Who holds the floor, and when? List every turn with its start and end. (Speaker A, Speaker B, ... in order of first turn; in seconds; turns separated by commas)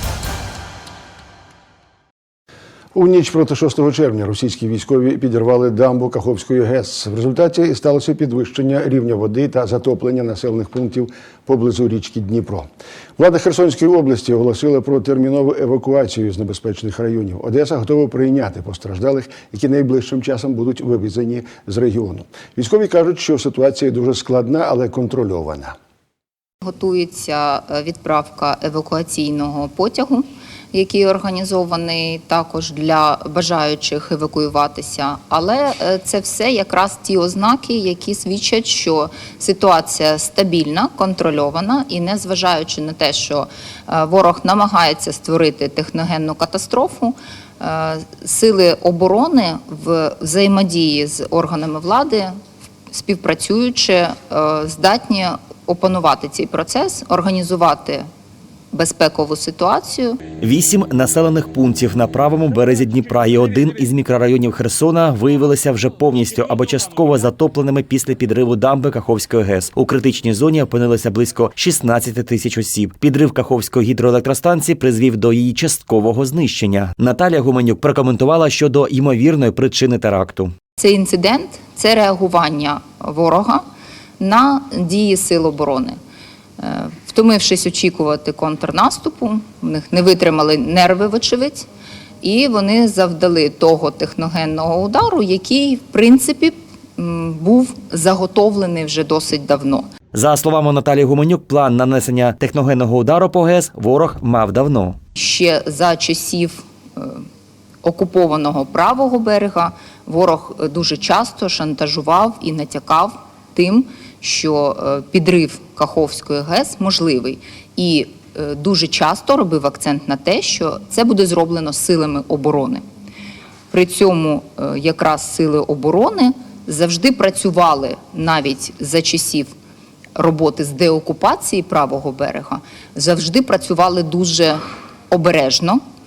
Speaker A: 2.9-25.8, Speaker B: 26.6-52.4, Speaker B: 52.9-58.1, Speaker B: 58.7-60.2, Speaker C: 60.4-80.5, Speaker B: 80.8-83.7, Speaker B: 84.2-86.0, Speaker B: 86.6-91.7, Speaker B: 92.2-99.9, Speaker C: 100.1-105.0, Speaker B: 105.2-107.2, Speaker B: 107.8-122.8, Speaker B: 123.7-129.5, Speaker B: 130.2-135.8